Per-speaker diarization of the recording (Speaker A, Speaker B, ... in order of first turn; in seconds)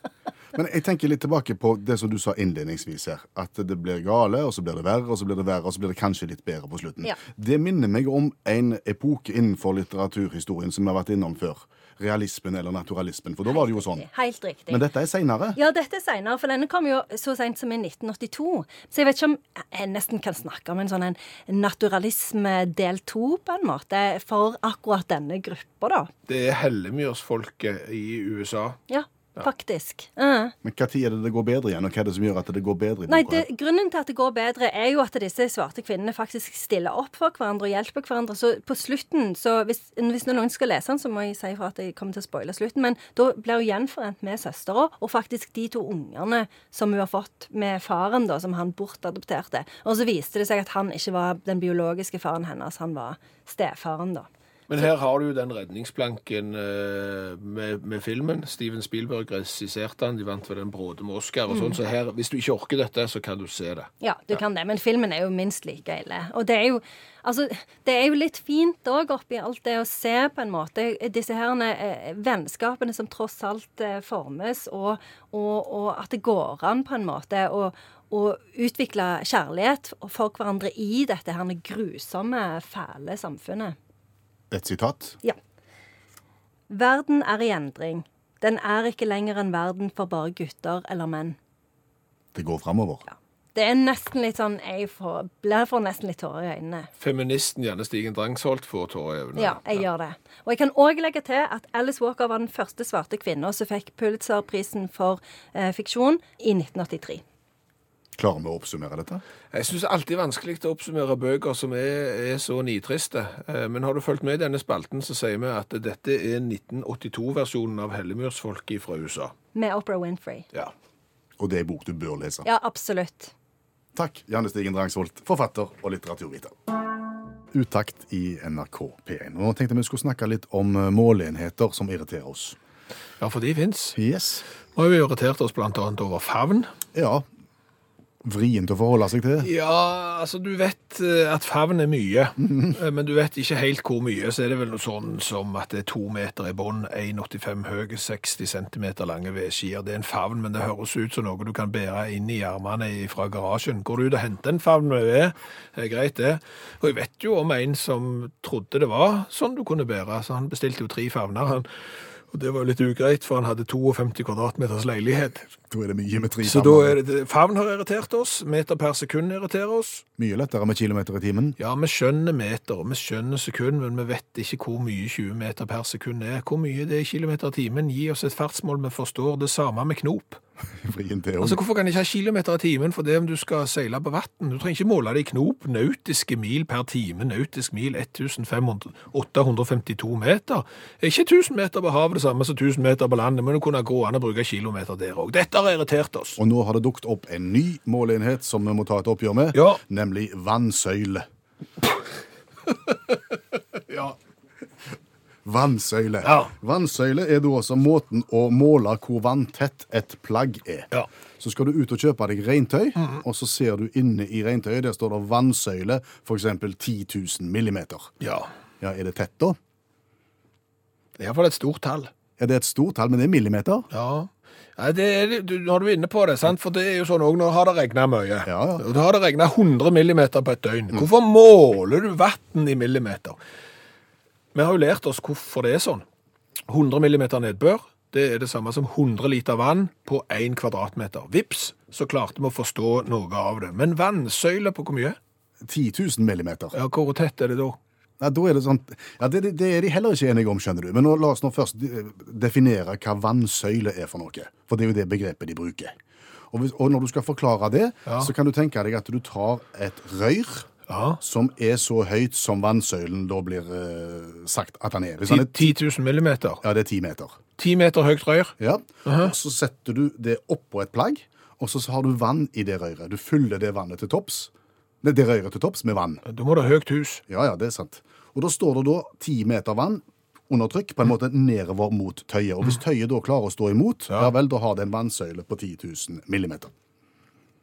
Speaker A: 0.5-14.1, 14.7-15.6, 30.6-33.5, 84.5-85.2, 92.3-93.0, 108.2-109.2, 121.4-122.5, 124.0-126.6, 127.5-132.6, 134.0-134.4, 136.9-137.2, 138.2-139.5, 142.4-142.8, 165.7-167.0, 170.2-171.6, 180.8-181.6, 196.4-201.3, 205.4-210.9, 211.4-218.1, 218.8-219.6, 222.4-223.9, 228.5-228.8, 245.6-246.8, 248.2-255.9, 256.5-260.7, 261.2-265.7, 266.6-267.4, 268.6-274.5, 275.0-276.2, 277.3-286.7
Speaker B: 13.5-14.8, 15.6-26.1, 28.9-30.5, 33.1-54.3, 61.5-61.8, 64.0-83.8, 86.7-91.4, 93.1-96.9, 99.4-107.2, 119.5-120.5, 122.5-123.3
Speaker C: 26.3-28.8, 54.7-63.9, 97.0-99.8, 109.5-119.3, 133.2-134.0, 134.8-136.7, 139.4-161.7, 162.3-165.5, 166.4-170.1, 171.6-180.4, 181.4-196.4, 199.5-199.8, 202.9-203.2, 203.9-204.2, 206.2-206.5, 218.2-218.5, 221.2-222.1, 223.9-233.4, 234.5-236.0, 236.7-245.2, 246.7-247.8, 260.9-261.2, 265.3-266.6, 267.6-269.3, 276.2-277.2